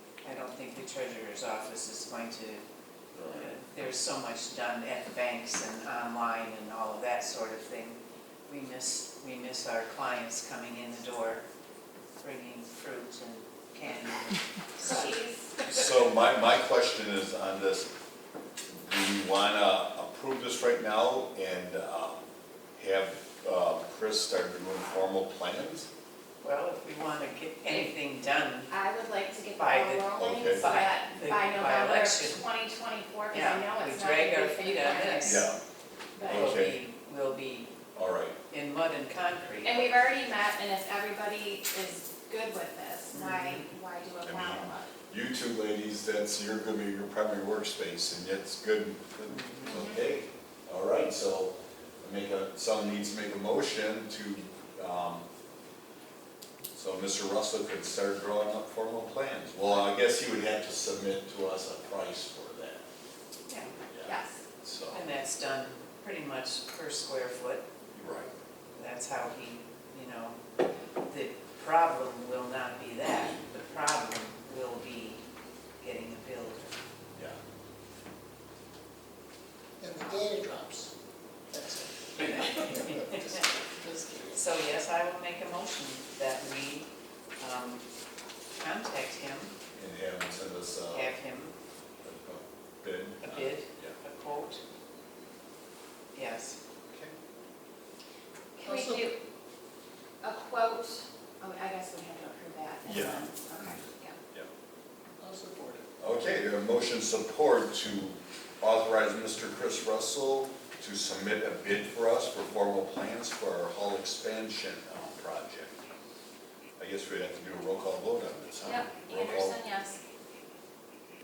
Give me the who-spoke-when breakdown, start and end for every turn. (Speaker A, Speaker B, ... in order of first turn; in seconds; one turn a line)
Speaker A: 0.2-2.6
Speaker B: 3.1-3.5
Speaker A: 3.2-11.4
Speaker A: 12.2-15.1
Speaker C: 14.8-15.6
Speaker B: 15.6-17.9
Speaker B: 18.8-25.9
Speaker A: 26.4-28.7
Speaker C: 28.7-35.5
Speaker A: 29.6-32.4
Speaker B: 30.2-30.7
Speaker A: 33.3-35.5
Speaker B: 35.2-35.6
Speaker C: 36.1-36.5
Speaker A: 36.2-37.7
Speaker B: 36.2-36.8
Speaker B: 37.9-38.4
Speaker A: 38.5-39.9
Speaker C: 39.6-44.9
Speaker A: 43.1-43.6
Speaker B: 44.2-55.2
Speaker A: 49.3-49.8
Speaker C: 49.6-50.0
Speaker B: 56.7-62.8
Speaker A: 63.5-63.7
Speaker B: 63.9-65.0
Speaker C: 64.0-64.4
Speaker A: 64.9-67.6
Speaker B: 67.9-68.3
Speaker A: 68.7-70.4
Speaker A: 71.0-75.2
Speaker A: 75.8-76.8
Speaker D: 79.8-80.9
Speaker D: 81.5-84.4
Speaker A: 82.2-83.5
Speaker A: 84.3-86.9
Speaker A: 87.4-87.8
Speaker A: 88.6-89.5
Speaker B: 89.7-91.1
Speaker A: 90.9-91.5
Speaker B: 92.0-94.0
Speaker A: 93.2-94.6
Speaker A: 96.1-96.6
Speaker B: 96.9-97.1
Speaker C: 98.6-99.2
Speaker D: 98.6-99.0
Speaker C: 100.2-104.2
Speaker B: 102.8-104.5
Speaker D: 105.2-105.8
Speaker B: 106.0-115.8
Speaker B: 116.8-119.6
Speaker C: 118.6-120.0